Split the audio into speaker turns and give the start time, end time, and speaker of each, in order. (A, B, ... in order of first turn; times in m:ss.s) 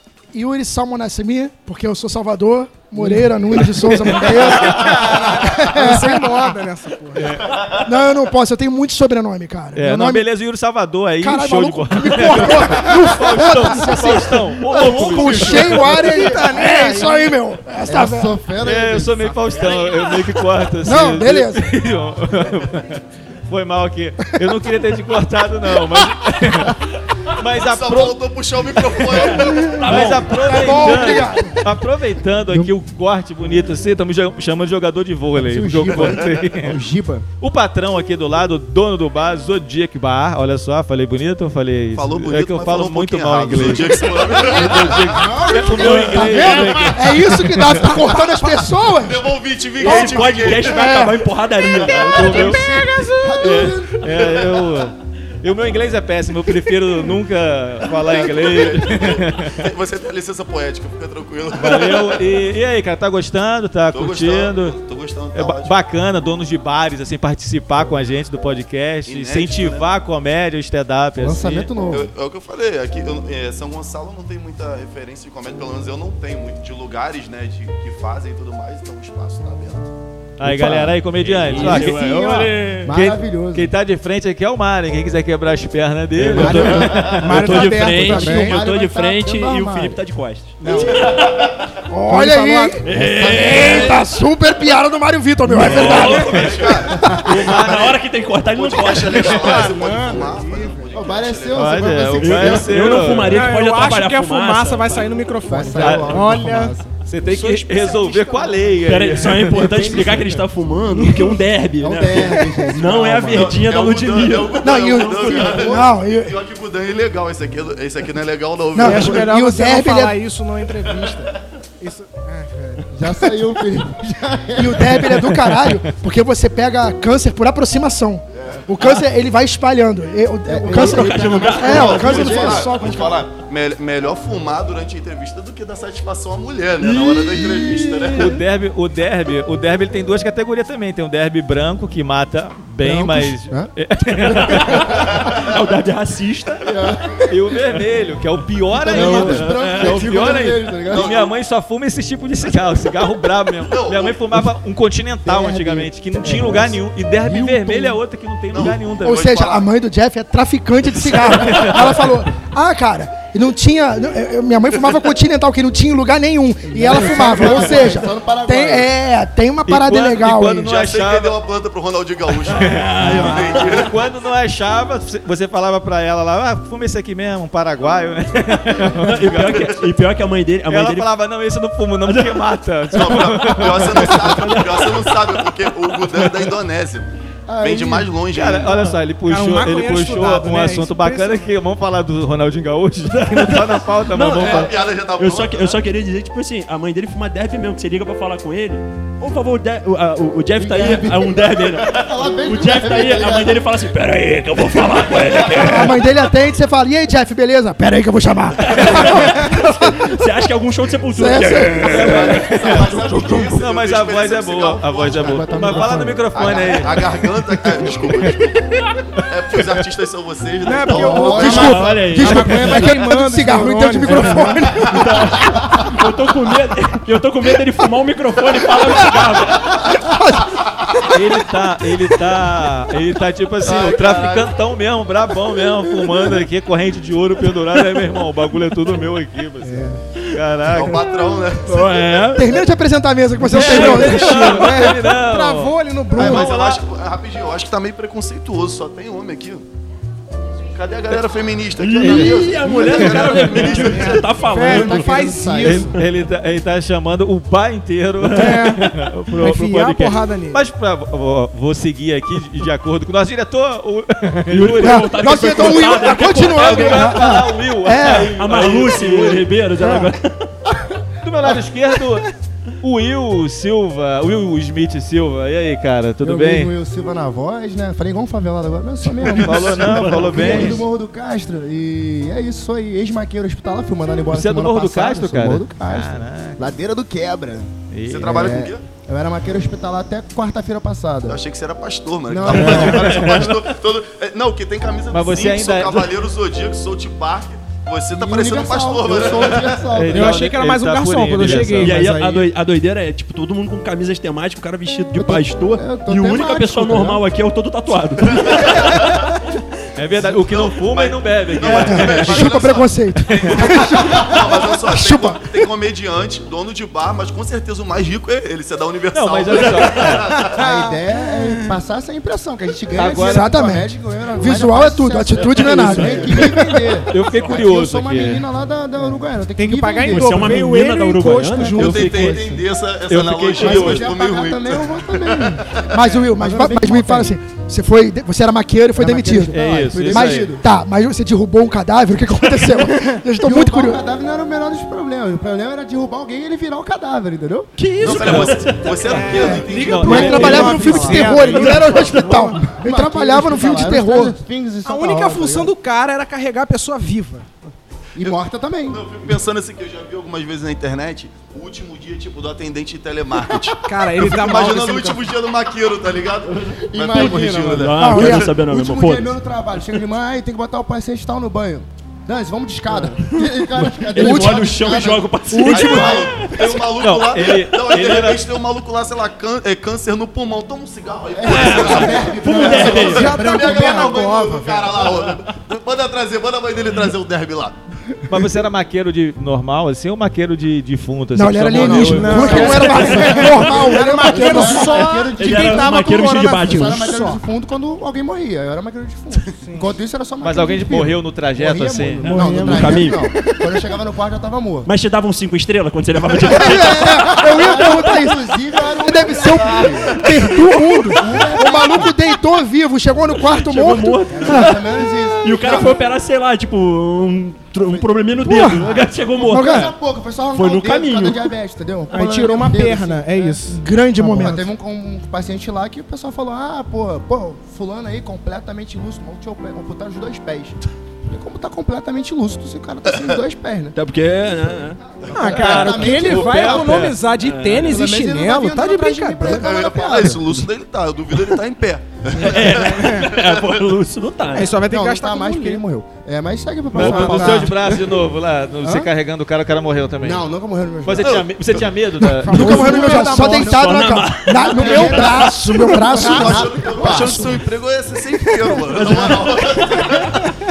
0:00.3-0:06.4 A
0:03.0-0:03.3 B
0:03.7-0:05.4 C
0:05.0-0:07.4 B
0:07.1-0:07.8 C
0:07.4-0:07.8 D
0:07.8-0:10.3 A
0:09.7-0:16.0 C
0:11.2-0:18.4 A
0:15.0-0:17.2 B
0:17.8-0:19.3 E
0:18.6-0:28.2 C
0:19.4-0:20.5 F
0:20.8-0:21.7 A
0:27.6-0:30.3 D
0:28.8-0:36.8 C
0:29.1-0:31.1 F
0:30.3-0:31.6 A
0:30.6-0:31.3 B
0:35.3-0:37.2 E
0:35.9-0:36.3 D
0:37.4-0:48.1 C
0:41.9-0:45.4 D
0:44.2-0:46.5 E
0:45.6-0:47.0 F
0:45.8-0:46.8 B
0:45.8-0:49.3 A
0:48.1-0:51.0 D
0:49.8-0:52.6 F
0:49.8-0:51.2 A
0:51.6-0:52.1 D
0:52.0-0:59.7 C
0:52.2-0:53.5 B
0:53.0-0:54.1 E
0:54.1-0:54.8 D
0:57.9-1:02.4 D
1:01.6-1:04.8 C
1:03.9-1:05.7 D
1:05.3-1:11.7 C
1:09.0-1:09.8 D
1:11.2-1:12.1 E
1:11.8-1:19.9 D
1:20.4-1:27.7 C
1:20.4-1:21.0 E
1:21.1-1:22.9 F
1:21.5-1:23.7 E
1:26.2-1:31.5 F
1:26.3-1:27.1 E
1:26.4-1:27.2 D
1:26.6-1:28.6 B
1:27.8-1:30.0 E
1:30.6-1:30.9 E
1:30.6-1:31.0 B
1:31.9-1:37.1 A
1:32.1-1:32.8 B
1:32.8-1:34.0 F
1:32.9-1:34.0 E
1:35.6-1:39.7 F
1:35.6-1:38.0 C
1:35.8-1:38.0 D
1:36.0-1:36.3 B
1:38.5-1:41.9 D
1:39.3-1:40.8 B
1:40.9-1:43.0 E
1:41.5-1:43.4 C
1:42.2-1:45.1 F
1:43.0-1:46.8 B
1:45.4-1:46.9 E
1:45.8-1:46.3 C
1:47.0-1:50.4 C
1:47.2-1:54.6 F
1:50.9-1:51.4 B
1:51.8-1:53.6 E
1:53.3-1:59.3 D
1:54.6-1:56.4 A
1:55.0-1:55.7 E
1:58.7-2:00.2 A
1:58.8-2:02.8 B
2:02.9-2:05.1 E
2:04.5-2:13.3 A
2:05.1-2:05.8 C
2:08.4-2:08.6 D
2:10.5-2:12.7 E
2:10.7-2:12.2 F
2:11.0-2:18.4 D
2:16.8-2:18.2 F
2:17.8-2:18.3 E
2:18.1-2:25.3 C
2:22.8-2:23.7 E
2:24.2-2:26.7 F
2:24.9-2:25.4 D
2:26.6-2:27.3 E
2:27.2-2:39.6 C
2:28.8-2:30.3 F
2:28.8-2:31.2 E
2:30.9-2:31.3 D
2:33.6-2:34.4 D
2:35.2-2:38.0 E
2:38.5-2:39.6 D
2:39.0-2:50.7 A
2:41.1-2:41.7 D
2:41.3-2:42.1 C
2:46.6-2:48.9 E
2:47.5-2:47.9 C
2:49.6-2:51.4 C
2:50.6-2:53.9 D
2:52.4-2:53.9 F
2:52.5-2:59.7 C
2:58.9-3:01.1 F
2:59.4-2:59.8 D
3:00.7-3:04.7 C
3:02.0-3:02.4 F
3:02.9-3:07.1 D
3:03.0-3:05.2 F
3:07.5-3:08.1 E
3:07.6-3:08.9 D
3:08.3-3:14.7 C
3:09.2-3:11.5 B
3:13.2-3:26.0 F
3:14.2-3:15.8 D
3:20.6-3:23.7 E
3:25.6-3:30.2 A
3:28.6-3:33.5 F
3:31.1-3:32.3 A
3:31.8-3:38.6 D
3:31.9-3:37.2 C
3:35.1-3:36.8 E
3:39.2-3:42.2 D
3:40.6-3:44.8 B
3:40.9-3:41.7 E
3:41.1-3:42.9 C
3:41.2-3:45.3 A
3:42.2-3:44.5 E
3:44.8-3:49.9 F
3:45.0-3:45.5 C
3:51.0-4:01.0 C
3:53.6-3:54.5 D
3:59.6-4:00.0 B
4:00.6-4:01.9 D
4:01.6-4:02.5 F
4:02.3-4:04.6 A
4:03.4-4:06.5 B
4:03.4-4:06.8 C
4:03.7-4:04.2 F
4:06.1-4:09.6 D
4:10.7-4:14.3 D
4:11.8-4:15.2 F
4:12.0-4:14.0 C
4:13.9-4:16.0 B
4:14.5-4:15.9 E
4:15.6-4:29.4 C
4:18.3-4:20.6 B
4:18.4-4:18.9 F
4:24.5-4:27.3 F
4:24.8-4:28.4 A
4:28.4-4:30.5 F
4:31.2-4:32.3 C
4:32.8-4:36.7 C
4:36.2-4:47.7 E
4:39.2-4:40.9 C
4:39.4-4:40.6 D
4:39.7-4:40.8 F
4:44.3-4:46.7 C
4:47.9-4:48.5 C
4:48.0-4:48.8 D
4:48.2-4:51.4 E
4:51.2-4:59.8 D
4:52.3-4:53.0 E
4:52.5-4:53.5 F
4:52.5-4:53.6 C
4:55.1-4:56.1 C
4:58.1-5:00.4 E
4:59.9-5:02.0 C
5:00.0-5:02.5 B
5:01.4-5:09.0 F
5:05.1-5:07.2 E
5:08.4-5:09.1 D
5:10.0-5:12.6 C
5:10.2-5:20.6 D
5:11.7-5:15.4 A
5:13.3-5:13.8 C
5:19.1-5:20.3 C
5:19.6-5:20.1 F
5:20.3-5:21.4 B
5:20.5-5:30.6 E
5:22.9-5:23.5 C
5:23.1-5:26.8 A
5:25.4-5:26.5 C
5:25.9-5:26.3 F
5:27.1-5:28.4 C
5:27.1-5:27.6 F
5:29.6-5:32.4 B
5:30.1-5:32.4 F
5:31.8-5:36.0 D
5:31.8-5:32.6 E
5:33.1-5:34.1 C
5:33.5-5:37.3 E
5:35.8-5:44.0 A
5:39.0-5:40.6 E
5:39.5-5:40.5 C
5:43.4-5:47.7 E
5:47.8-5:49.3 F
5:48.0-5:50.8 D
5:48.0-5:48.5 C
5:49.0-5:52.4 B
5:49.3-5:51.8 C
5:49.4-5:54.3 A
5:52.0-5:52.3 F
5:52.0-5:55.7 E
5:54.8-5:57.5 B
5:58.1-5:59.0 E
5:58.9-6:08.5 D
6:03.8-6:05.2 B
6:06.8-6:16.6 E
6:07.1-6:09.3 F
6:08.0-6:08.4 A
6:14.1-6:16.4 F
6:14.1-6:14.7 A
6:15.5-6:16.3 A
6:15.6-6:27.8 D
6:16.9-6:18.4 C
6:21.4-6:24.3 E
6:21.4-6:23.3 F
6:22.6-6:25.1 B
6:28.3-6:33.7 C
6:31.3-6:35.0 A
6:31.7-6:36.1 E
6:32.0-6:37.4 B
6:35.4-6:37.1 F
6:36.6-6:44.9 E
6:40.4-6:42.7 C
6:42.2-6:43.2 B
6:42.6-6:43.2 F
6:44.8-6:47.6 F
6:46.4-6:54.8 A
6:46.5-6:50.2 E
6:50.1-6:51.2 B
6:51.1-6:52.2 E
6:53.4-6:54.8 F
6:54.3-6:56.0 E
6:55.4-6:59.8 F
6:57.8-7:03.6 E
6:58.4-6:58.9 A
6:59.4-6:59.9 A
7:00.5-7:01.5 F
7:02.1-7:03.8 B
7:03.7-7:04.7 A
7:04.2-7:13.9 E
7:13.9-7:16.0 F
7:15.2-7:15.5 D
7:15.3-7:17.2 E
7:15.3-7:19.6 B
7:15.6-7:15.9 C
7:16.6-7:17.1 C
7:16.7-7:18.0 F
7:17.8-7:20.6 E
7:19.4-7:23.9 D
7:22.4-7:24.7 F
7:22.5-7:23.3 B
7:24.5-7:25.8 B
7:24.9-7:27.8 E
7:26.9-7:30.4 C
7:26.9-7:28.0 B
7:28.8-7:29.1 B
7:30.2-7:31.4 E
7:31.0-7:32.9 C
7:31.2-7:31.9 D
7:32.2-7:37.4 A
7:32.4-7:34.0 B
7:32.5-7:37.5 E
7:33.7-7:35.8 F
7:36.0-7:40.5 D
7:38.9-7:39.6 E
7:38.9-7:40.3 F